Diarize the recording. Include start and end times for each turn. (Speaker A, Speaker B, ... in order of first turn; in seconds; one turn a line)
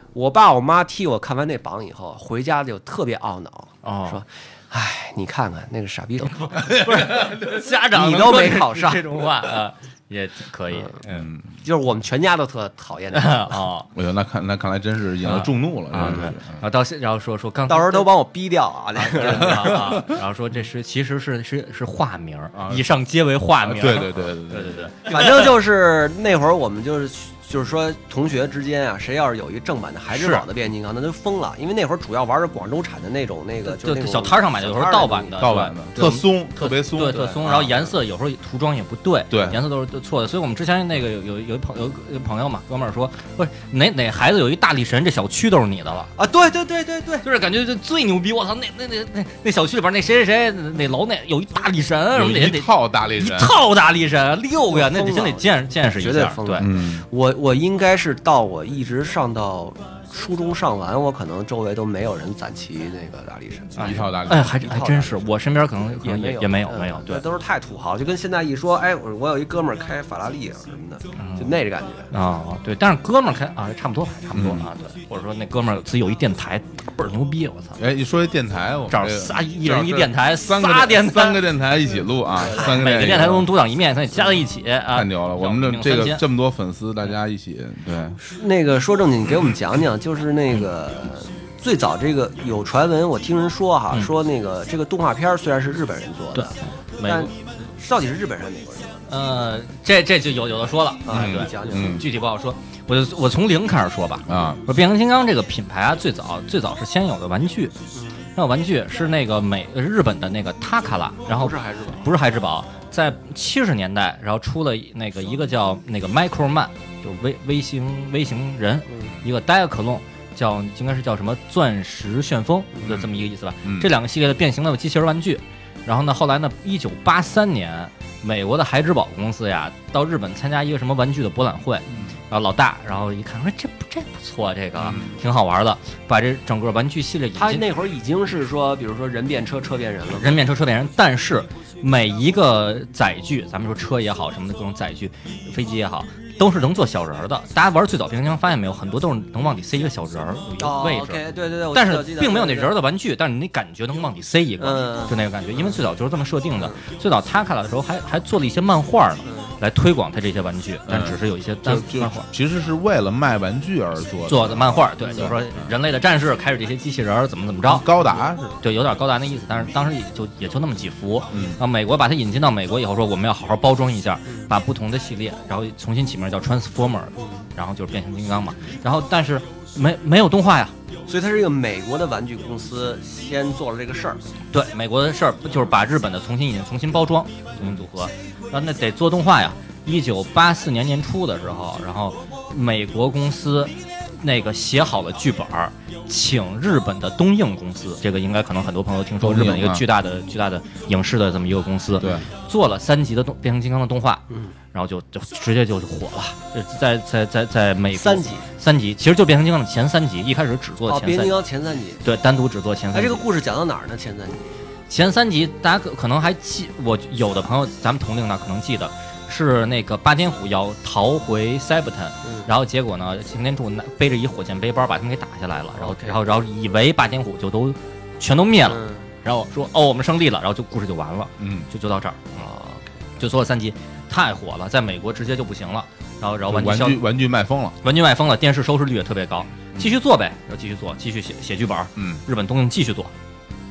Speaker A: 0.1-6.8
Speaker B: 3.8-4.2
Speaker B: 6.5-11.3
Speaker C: 6.7-7.7
Speaker A: 7.8-9.1
Speaker C: 11.1-11.4
Speaker A: 11.6-13.6
Speaker B: 13.1-13.9
Speaker C: 13.9-16.6
Speaker B: 15.2-18.1
Speaker A: 16.0-16.3
Speaker A: 17.7-20.1
Speaker B: 19.0-25.6
Speaker C: 22.6-22.9
Speaker C: 23.6-24.9
Speaker A: 25.1-35.5
Speaker B: 30.1-30.4
Speaker B: 33.6-46.1
Speaker C: 35.4-37.7
Speaker A: 37.2-37.7
Speaker C: 39.3-39.6
Speaker A: 46.2-47.3
Speaker B: 47.2-56.7
Speaker C: 52.1-53.6
Speaker A: 54.7-72.1
Speaker C: 56.6-57.0
Speaker B: 63.8-67.2
Speaker C: 63.8-64.5
Speaker B: 71.2-71.6
Speaker B: 72.1-77.8
Speaker C: 74.3-74.7
Speaker C: 77.8-83.5
Speaker B: 78.9-81.4
Speaker B: 82.5-86.2
Speaker C: 84.9-88.2
Speaker A: 88.2-99.0
Speaker B: 96.3-97.3
Speaker B: 99.1-107.7
Speaker A: 101.0-102.1
Speaker C: 101.1-102.0
Speaker C: 104.3-104.6
Speaker A: 108.0-108.2
Speaker B: 108.4-137.7
Speaker A: 111.3-112.0
Speaker C: 122.8-123.1
Speaker C: 123.6-123.9
Speaker C: 134.8-135.2
Speaker A: 137.4-140.4
Speaker B: 140.1-162.2
Speaker A: 150.6-152.7
Speaker A: 154.6-155.8
Speaker A: 159.2-159.5
Speaker C: 160.9-165.7
Speaker B: 164.3-167.9
Speaker C: 167.7-168.6
Speaker B: 168.6-180.8
Speaker C: 171.3-171.6
Speaker A: 177.2-177.5
Speaker A: 181.1-184.2
Speaker B: 184.5-211.4
Speaker C: 199.2-199.8
Speaker C: 202.0-202.3
Speaker A: 208.0-208.5
Speaker A: 210.9-212.0
Speaker B: 212.0-213.2
Speaker A: 212.9-214.5
Speaker B: 214.9-232.5
Speaker A: 222.2-222.5
Speaker A: 225.8-226.2
Speaker A: 228.6-229.1
Speaker C: 231.4-231.7
Speaker A: 232.4-232.9
Speaker B: 233.2-237.0
Speaker C: 236.5-237.8
Speaker B: 237.8-243.1